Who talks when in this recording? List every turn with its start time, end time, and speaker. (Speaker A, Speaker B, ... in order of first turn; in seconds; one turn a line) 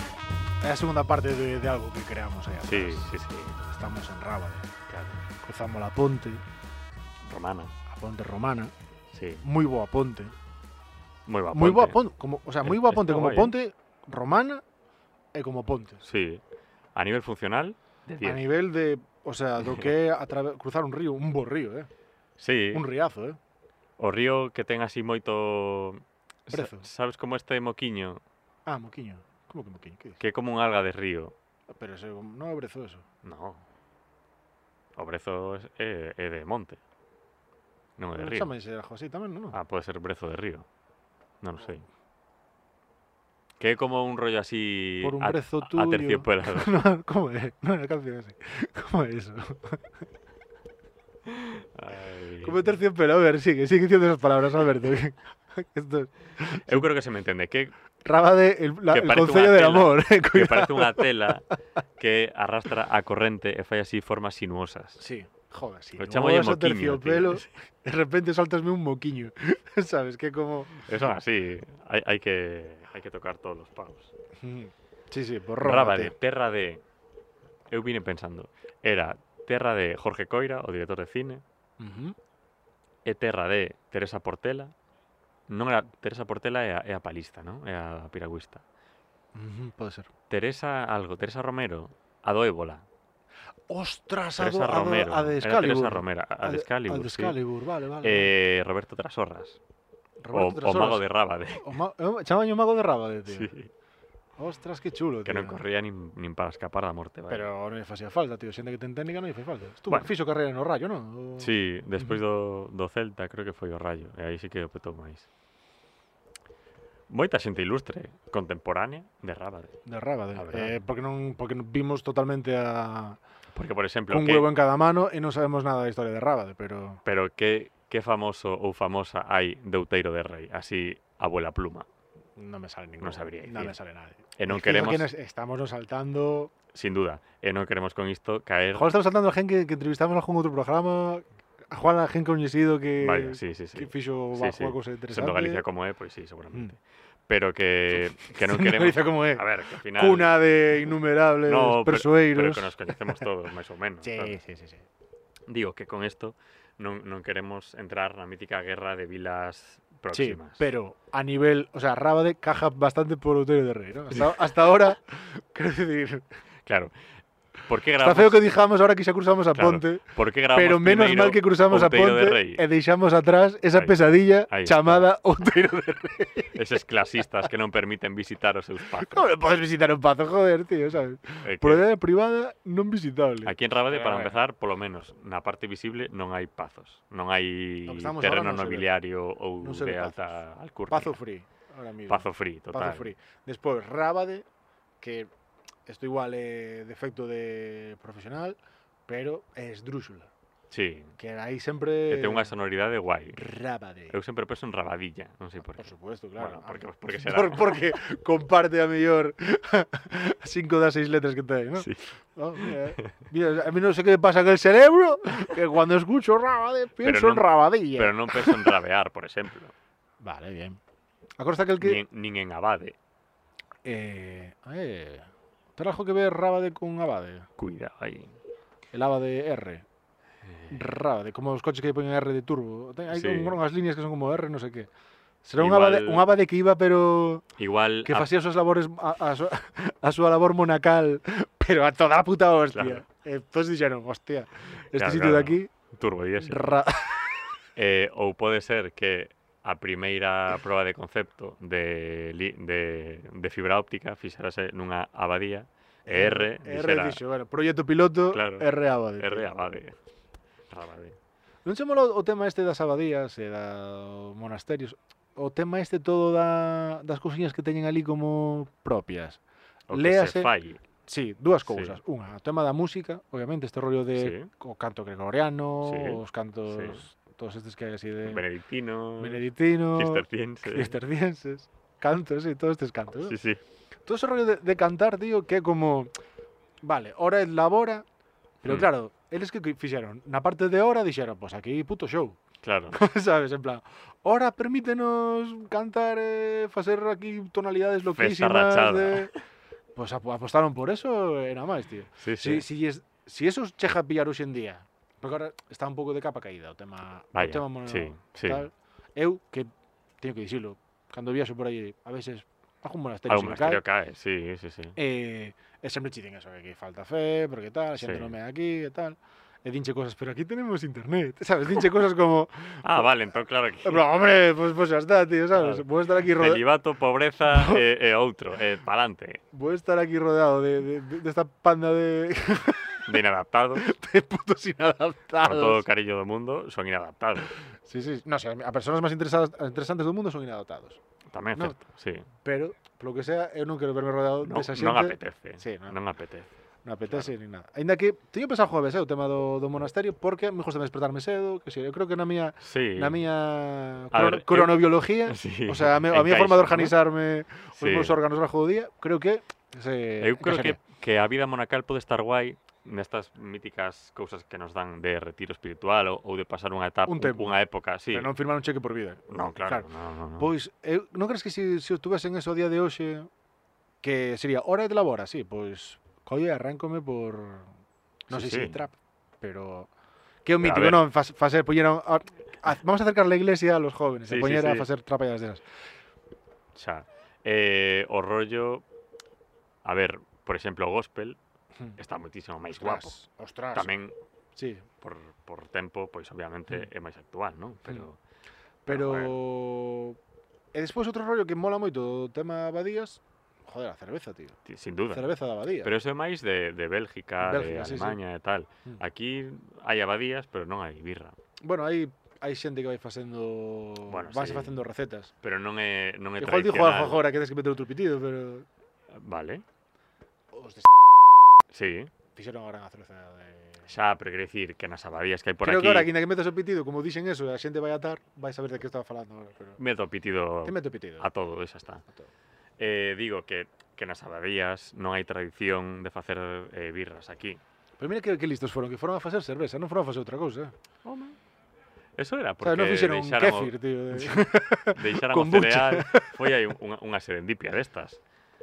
Speaker A: 0.6-3.1
Speaker B: 2.6-3.6
Speaker A: 3.6-4.8
Speaker B: 4.9-5.2
Speaker A: 5.4-6.4
Speaker B: 7.3-7.7
Speaker A: 7.9-8.7
Speaker B: 9.1-9.4
Speaker A: 9.4-10.3
Speaker B: 11.3-12.0
Speaker A: 11.5-14.6
Speaker B: 12.6-13.5
Speaker A: 15.3-16.1
Speaker B: 16.0-16.4
Speaker B: 16.9-18.4
Speaker A: 18.2-21.9
Speaker B: 22.4-22.8
Speaker A: 22.7-23.4
Speaker B: 24.0-28.2
Speaker A: 26.5-26.9
Speaker A: 28.7-30.2
Speaker B: 30.2-31.4
Speaker A: 31.7-33.0
Speaker B: 33.2-33.6
Speaker B: 35.0-36.8
Speaker B: 38.0-38.5
Speaker A: 38.2-39.6
Speaker B: 39.5-40.7
Speaker B: 41.4-41.9
Speaker B: 43.6-46.8
Speaker A: 45.0-50.0
Speaker B: 51.3-52.6
Speaker A: 52.4-56.9
Speaker B: 56.7-57.7
Speaker A: 58.0-61.3
Speaker B: 58.9-65.0
Speaker A: 65.0-71.1
Speaker B: 66.0-67.5
Speaker B: 70.9-74.1
Speaker A: 74.4-76.1
Speaker B: 75.6-76.8
Speaker B: 77.7-81.4
Speaker A: 81.8-82.2
Speaker B: 83.0-84.7
Speaker B: 85.5-88.6
Speaker A: 89.3-90.1
Speaker B: 90.3-92.9
Speaker A: 93.7-98.3
Speaker B: 94.4-97.4
Speaker B: 98.0-99.6
Speaker A: 100.2-103.5
Speaker B: 100.3-101.8
Speaker B: 103.3-103.7
Speaker A: 104.4-105.6
Speaker B: 105.3-107.5
Speaker A: 107.3-112.2
Speaker B: 111.4-115.3
Speaker B: 117.1-119.8
Speaker A: 119.9-123.2
Speaker B: 120.3-120.8
Speaker B: 123.5-124.5
Speaker A: 124.1-127.0
Speaker B: 127.0-131.9
Speaker A: 132.4-136.5
Speaker B: 133.0-133.8
Speaker B: 134.4-135.1
Speaker B: 136.7-138.9
Speaker A: 138.8-145.6
Speaker B: 143.0-150.4
Speaker A: 148.2-153.2
Speaker B: 151.5-154.4
Speaker A: 154.0-154.9
Speaker B: 155.5-160.6
Speaker A: 160.1-166.3
Speaker B: 166.7-166.9
Speaker B: 167.6-168.5
Speaker A: 168.0-176.6
Speaker B: 169.6-172.6
Speaker B: 173.8-175.1
Speaker B: 176.5-179.3
Speaker A: 178.9-184.4
Speaker B: 181.4-181.8
Speaker B: 183.4-191.2
Speaker A: 187.9-188.9
Speaker A: 189.6-190.2
Speaker A: 190.9-194.5
Speaker B: 192.1-193.1
Speaker A: 195.0-195.3
Speaker A: 195.9-200.3
Speaker B: 200.7-201.2
Speaker A: 201.2-202.5
Speaker B: 202.1-203.4
Speaker A: 203.3-204.2
Speaker B: 204.1-208.0
Speaker A: 205.8-218.8
Speaker B: 211.8-212.0
Speaker B: 212.6-213.2
Speaker B: 217.0-219.7
Speaker A: 220.2-220.8
Speaker A: 221.4-222.0
Speaker B: 221.8-223.0
Speaker A: 223.8-227.5
Speaker B: 227.6-228.3
Speaker A: 228.9-229.8
Speaker A: 230.7-234.9
Speaker B: 233.1-233.6
Speaker A: 235.4-237.4
Speaker B: 235.6-236.3
Speaker B: 237.6-238.3
Speaker A: 238.1-245.7
Speaker B: 242.7-243.0
Speaker B: 244.9-246.8
Speaker A: 246.4-247.5
Speaker B: 247.8-257.2
Speaker A: 256.1-259.5
Speaker B: 258.3-258.7
Speaker B: 259.2-260.0
Speaker B: 260.7-261.2
Speaker A: 261.6-269.4
Speaker B: 269.9-270.8
Speaker A: 269.9-270.5
Speaker A: 271.1-278.4
Speaker B: 271.7-272.0
Speaker B: 274.2-274.5
Speaker B: 275.8-277.0
Speaker B: 278.2-281.0
Speaker A: 279.2-283.4
Speaker B: 283.3-283.6
Speaker A: 284.1-286.1
Speaker A: 286.8-288.1
Speaker A: 288.6-292.4
Speaker B: 292.6-293.0
Speaker A: 292.9-299.3
Speaker B: 298.2-299.4
Speaker A: 299.9-309.7
Speaker B: 302.2-302.6
Speaker B: 307.4-308.7
Speaker A: 310.2-313.8
Speaker B: 313.3-315.0
Speaker A: 315.0-323.1
Speaker B: 318.0-318.3
Speaker B: 322.8-324.0
Speaker A: 323.8-326.6
Speaker B: 325.6-329.4
Speaker A: 327.5-327.8
Speaker A: 329.5-333.2
Speaker B: 333.1-333.9
Speaker A: 333.8-335.9
Speaker B: 335.4-337.6
Speaker A: 337.8-341.0
Speaker B: 341.3-342.3
Speaker A: 342.4-346.0
Speaker B: 344.4-346.5
Speaker A: 346.9-360.8
Speaker B: 352.6-353.2
Speaker B: 354.1-357.0
Speaker B: 357.8-358.2
Speaker B: 360.2-368.3
Speaker A: 367.1-367.6
Speaker A: 368.1-373.3
Speaker B: 369.3-370.5
Speaker A: 374.0-377.7
Speaker A: 378.3-379.9
Speaker B: 378.3-378.8
Speaker A: 380.4-385.6
Speaker B: 380.6-381.0
Speaker B: 384.3-384.9
Speaker B: 386.8-388.9
Speaker B: 389.8-391.4
Speaker B: 392.0-393.1
Speaker A: 392.7-393.9
Speaker B: 393.7-394.1
Speaker A: 394.6-394.9
Speaker B: 395.0-398.2
Speaker A: 398.9-400.2
Speaker B: 398.9-399.4
Speaker A: 400.7-404.6
Speaker B: 404.7-405.3
Speaker A: 405.1-405.9
Speaker B: 405.8-411.4
Speaker A: 407.4-408.2
Speaker A: 411.6-415.3
Speaker B: 414.1-414.8
Speaker B: 415.4-417.3
Speaker A: 416.4-418.7
Speaker B: 419.1-419.6
Speaker A: 420.5-421.3
Speaker B: 421.7-422.1
Speaker A: 422.3-423.9
Speaker B: 423.9-426.1
Speaker A: 425.6-429.8
Speaker B: 429.8-432.0
Speaker A: 430.6-431.3
Speaker B: 432.8-437.6
Speaker A: 438.0-440.7
Speaker B: 441.1-441.4
Speaker B: 442.2-448.2
Speaker A: 442.6-446.3